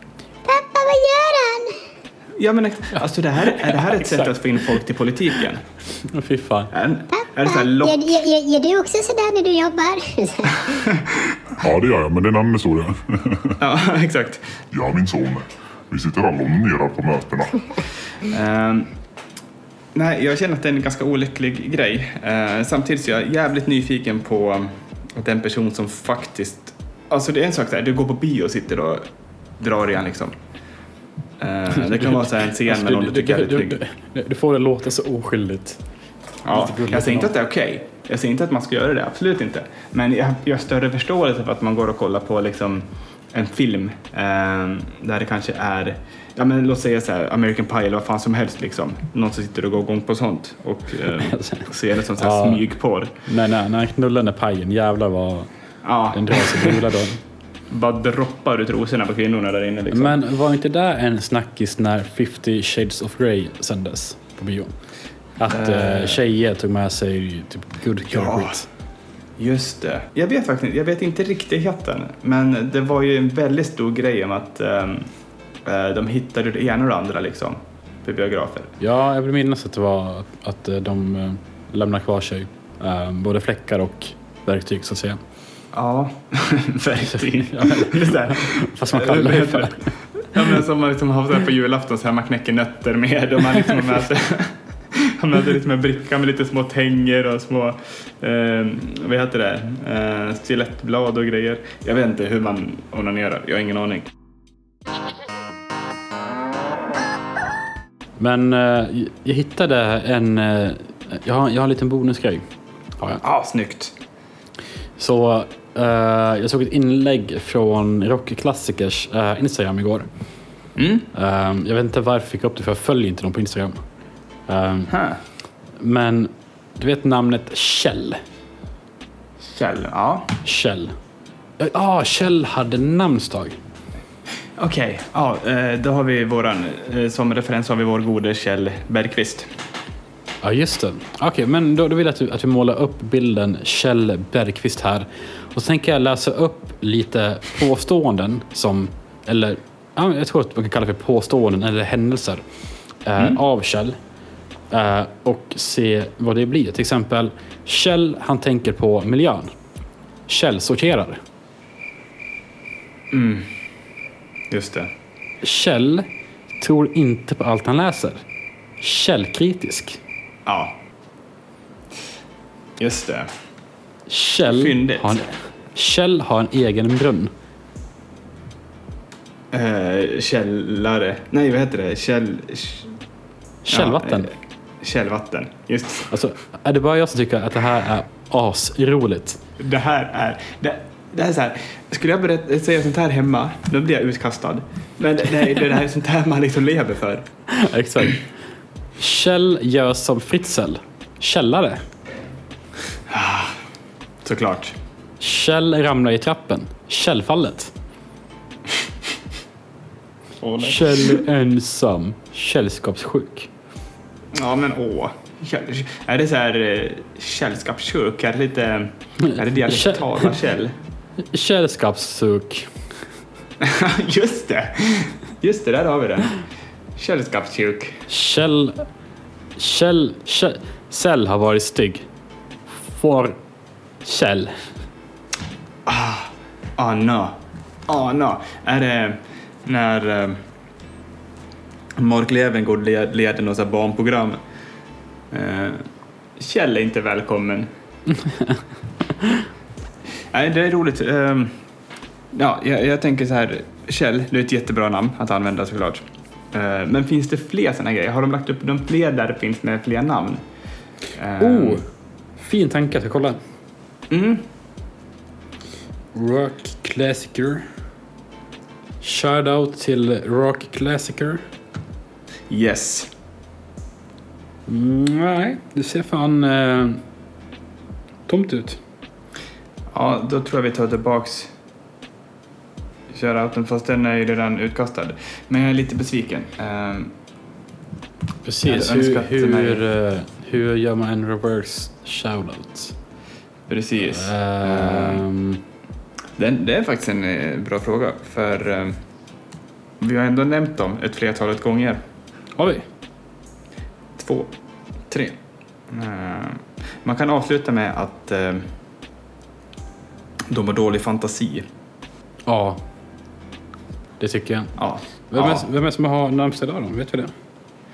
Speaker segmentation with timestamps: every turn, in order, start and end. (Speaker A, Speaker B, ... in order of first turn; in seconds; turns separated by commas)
Speaker A: 0.5-1.7, Speaker B: 2.4-5.6, Speaker C: 3.0-4.4, Speaker C: 6.1-6.7, Speaker B: 6.7-8.2, Speaker A: 7.1-10.7, Speaker B: 10.9-11.2, Speaker D: 11.6-13.5, Speaker B: 13.6-14.6, Speaker D: 14.7-17.7, Speaker B: 18.3-18.9, Speaker B: 19.9-29.1, Speaker B: 29.6-30.4, Speaker B: 31.4-33.8, Speaker C: 31.8-35.8, Speaker C: 36.4-37.3, Speaker B: 36.4-53.1, Speaker C: 51.2-52.7, Speaker C: 53.2-55.5, Speaker B: 55.8-56.9, Speaker C: 56.1-57.2, Speaker B: 57.7-60.2, Speaker C: 59.9-64.7, Speaker C: 65.4-68.7, Speaker B: 65.5-66.2, Speaker B: 68.1-68.6, Speaker B: 69.4-75.1, Speaker B: 75.6-78.8, Speaker C: 78.8-85.2, Speaker B: 85.7-104.1, Speaker C: 87.1-90.0, Speaker C: 108.2-112.4, Speaker B: 113.2-114.0, Speaker C: 115.0-120.1, Speaker B: 120.8-121.1, Speaker C: 121.1-123.9, Speaker C: 124.4-125.0, Speaker B: 124.9-125.2, Speaker C: 125.8-128.2, Speaker B: 129.4-130.4, Speaker C: 130.4-130.9, Speaker C: 131.6-133.6, Speaker B: 134.6-139.5, Speaker C: 140.4-154.0, Speaker C: 154.7-159.5, Speaker C: 160.3-161.2, Speaker B: 163.1-163.5, Speaker B: 164.5-164.9, Speaker C: 165.4-166.1, Speaker C: 166.6-168.2, Speaker C: 168.8-170.0, Speaker B: 170.5-170.8, Speaker B: 172.8-173.3, Speaker C: 174.1-177.3, Speaker B: 174.4-175.2, Speaker B: 179.5-183.0, Speaker C: 183.7-184.3, Speaker B: 183.7-186.1, Speaker C: 186.1-189.4, Speaker B: 189.6-197.3, Speaker C: 197.6-198.2, Speaker C: 199.0-201.8, Speaker B: 203.1-203.6, Speaker B: 204.2-204.8, Speaker C: 205.2-207.7, Speaker B: 210.4-211.2, Speaker C: 210.6-213.5, Speaker B: 214.3-220.8, Speaker C: 219.2-220.2, Speaker C: 221.3-222.8, Speaker B: 223.6-226.3, Speaker B: 227.0-228.1, Speaker C: 228.1-228.9, Speaker C: 229.6-232.1, Speaker C: 232.8-233.4, Speaker C: 234.0-234.8, Speaker B: 235.9-240.4, Speaker B: 242.0-244.4, Speaker B: 245.3-245.8, Speaker B: 246.4-247.7, Speaker C: 248.1-248.6, Speaker B: 250.3-251.6, Speaker B: 252.3-260.4, Speaker B: 261.1-261.8, Speaker C: 261.4-263.4, Speaker B: 264.1-264.4, Speaker C: 266.1-267.7, Speaker C: 269.0-271.4, Speaker B: 272.5-273.1, Speaker C: 274.7-277.0, Speaker C: 278.3-278.8, Speaker B: 279.9-281.5, Speaker B: 283.1-287.1, Speaker C: 288.4-292.9, Speaker B: 288.6-289.8, Speaker B: 293.7-295.2, Speaker C: 294.1-295.6, Speaker B: 296.4-299.0, Speaker B: 300.0-302.0, Speaker C: 302.6-302.9, Speaker B: 304.2-304.5, Speaker B: 305.1-305.4, Speaker B: 305.9-308.7, Speaker B: 310.5-311.7, Speaker C: 312.5-312.8, Speaker C: 314.2-314.7, Speaker B: 314.8-315.7, Speaker C: 315.3-317.3